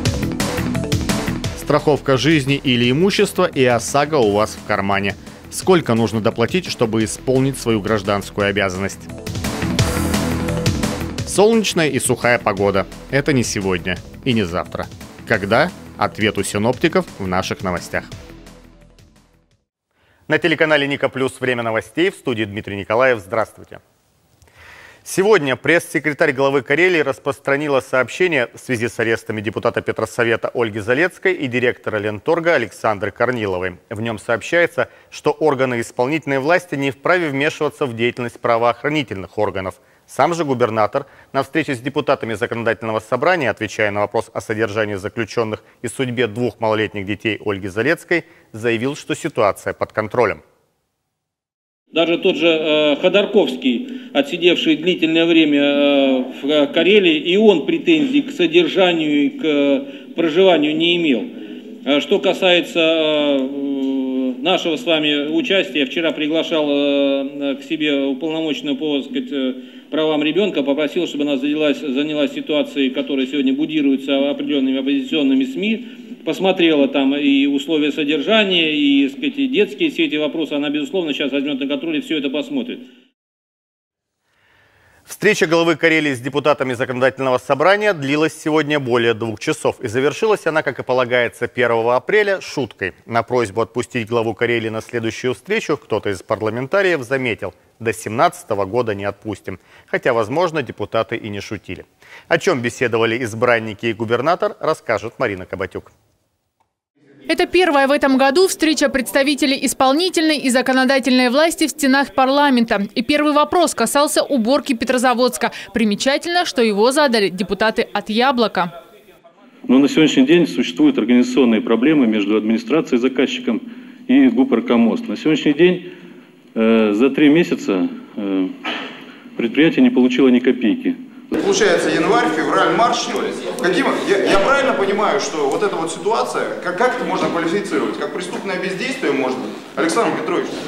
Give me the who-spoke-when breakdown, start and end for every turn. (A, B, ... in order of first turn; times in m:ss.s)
0:01.6-0:09.1 A
0:11.2-0:18.1 A
0:20.3-0:23.8 A
0:25.0-0:50.4 A
0:51.9-1:01.3 B
1:01.8-1:22.8 B
1:25.1-1:45.9 A
1:47.3-1:58.7 C
1:59.7-2:05.8 D
2:06.6-2:08.4 D
2:09.4-2:10.9 D
2:11.4-2:20.5 E